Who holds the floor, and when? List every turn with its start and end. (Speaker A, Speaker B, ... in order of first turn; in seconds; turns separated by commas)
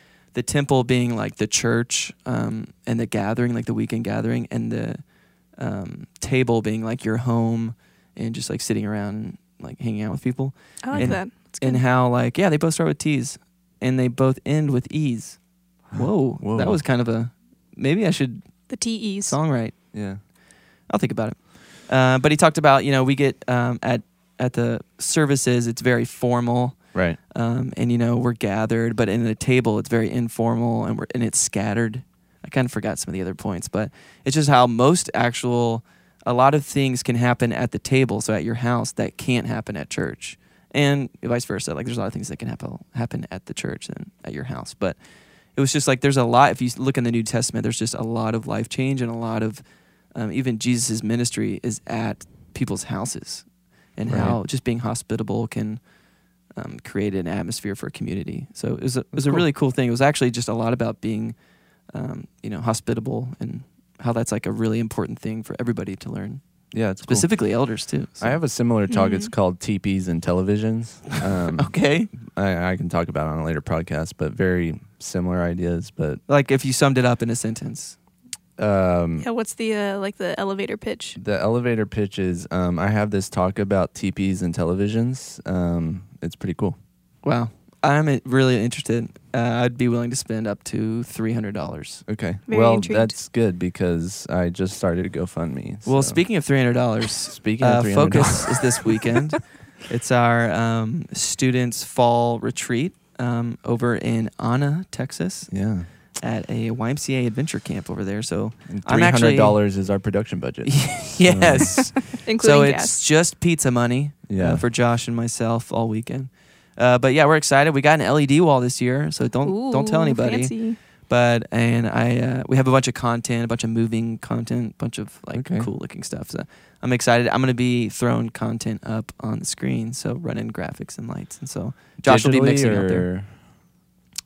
Speaker A: 0.3-5.0, Speaker A: 5.5-18.7, Speaker B: 10.8-11.8, Speaker C: 10.9-11.2, Speaker C: 15.9-16.8, Speaker B: 18.7-19.4, Speaker A: 19.3-19.9, Speaker C: 19.9-20.2, Speaker A: 20.9-45.0, Speaker A: 45.5-49.6, Speaker A: 50.1-55.8, Speaker C: 54.0-54.4, Speaker A: 56.5-61.4, Speaker C: 59.1-59.4, Speaker A: 61.9-66.4, Speaker C: 66.7-67.5, Speaker A: 67.0-68.4, Speaker C: 68.2-76.2, Speaker B: 68.9-69.3, Speaker A: 71.6-72.1, Speaker A: 76.3-78.0, Speaker C: 78.6-79.2, Speaker B: 79.2-81.2, Speaker C: 81.2-86.8, Speaker A: 87.2-92.0, Speaker C: 92.1-96.2, Speaker B: 92.5-93.2, Speaker A: 95.8-105.5, Speaker C: 97.3-99.0, Speaker C: 105.5-105.9, Speaker A: 106.2-109.6, Speaker C: 108.7-111.9, Speaker A: 110.7-133.1, Speaker B: 112.1-113.0, Speaker C: 114.3-114.6, Speaker B: 119.4-120.8, Speaker C: 125.3-125.7, Speaker C: 132.0-133.3